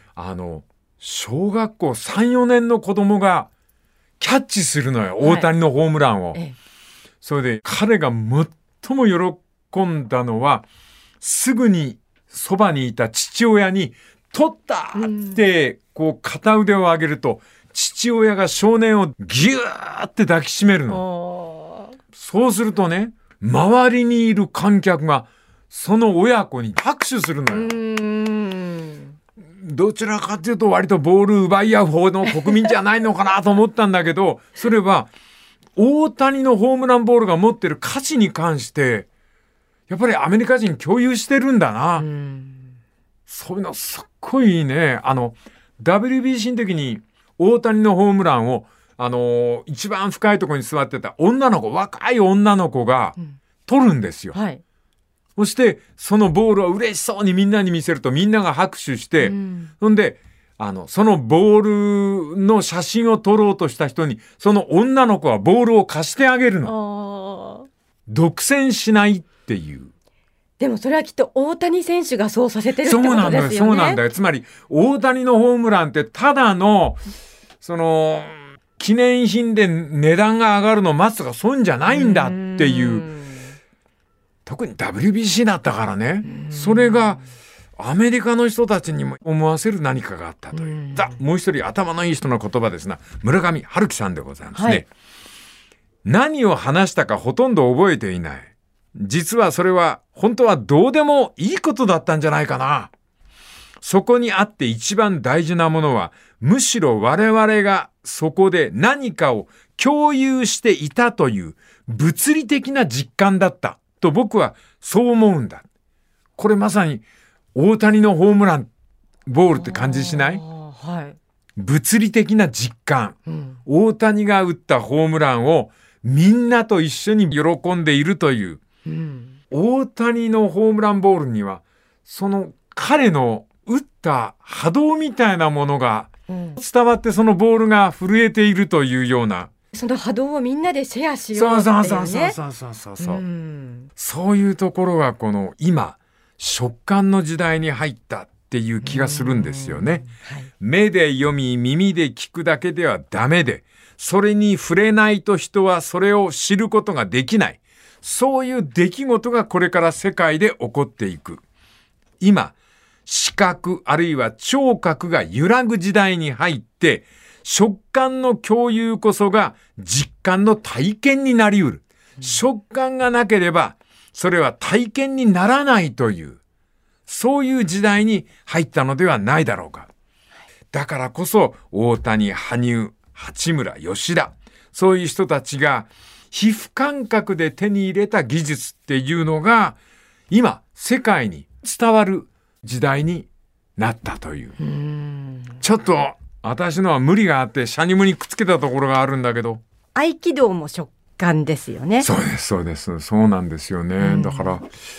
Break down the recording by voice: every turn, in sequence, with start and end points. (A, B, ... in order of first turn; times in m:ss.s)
0:00.2-0:03.5 A
0:04.2-0:06.4 A
0:05.2-0:05.5 B
0:07.2-0:10.6 A
0:11.2-0:21.0 A
0:15.0-0:15.4 B
0:20.9-0:22.0 B
0:22.1-0:27.8 A
0:27.5-0:29.1 B
0:29.6-0:35.1 A
0:35.8-0:39.1 A
0:39.9-0:42.1 A
0:42.0-0:42.7 B
0:43.3-0:54.4 A
0:54.3-0:54.6 B
0:55.4-1:06.8 A
0:59.2-0:59.7 B
1:06.6-1:07.7 B
1:08.1-1:09.9 A
1:10.6-1:14.0 B
1:12.8-1:17.0 A
1:17.6-1:23.1 A
1:21.9-1:23.5 B
1:24.4-1:27.2 A
1:26.3-1:27.2 B
1:27.8-1:34.9 A
1:30.5-1:31.2 B
1:34.5-1:34.8 B
1:36.0-1:42.9 A
1:43.8-1:55.6 A
1:56.4-1:57.0 A
1:57.5-1:58.7 A
1:59.2-2:00.4 A
1:59.6-2:01.2 B
2:01.6-2:08.6 A
2:03.3-2:03.6 B
2:08.8-2:09.4 B
2:09.5-2:19.5 A
2:16.3-2:16.6 B
2:19.7-2:22.4 B
2:21.3-2:23.2 A
2:23.0-2:23.9 B
2:24.0-2:30.0 A
2:28.8-2:30.5 B
2:30.6-2:41.4 A
2:42.2-2:42.5 A
2:43.0-2:56.4 A
2:57.1-2:59.9 A
3:00.7-3:09.8 A
3:10.3-3:14.5 A
3:14.6-3:15.6 B
3:15.6-3:19.6 A
3:19.9-3:22.1 B
3:22.0-3:24.6 A
3:24.0-3:24.5 B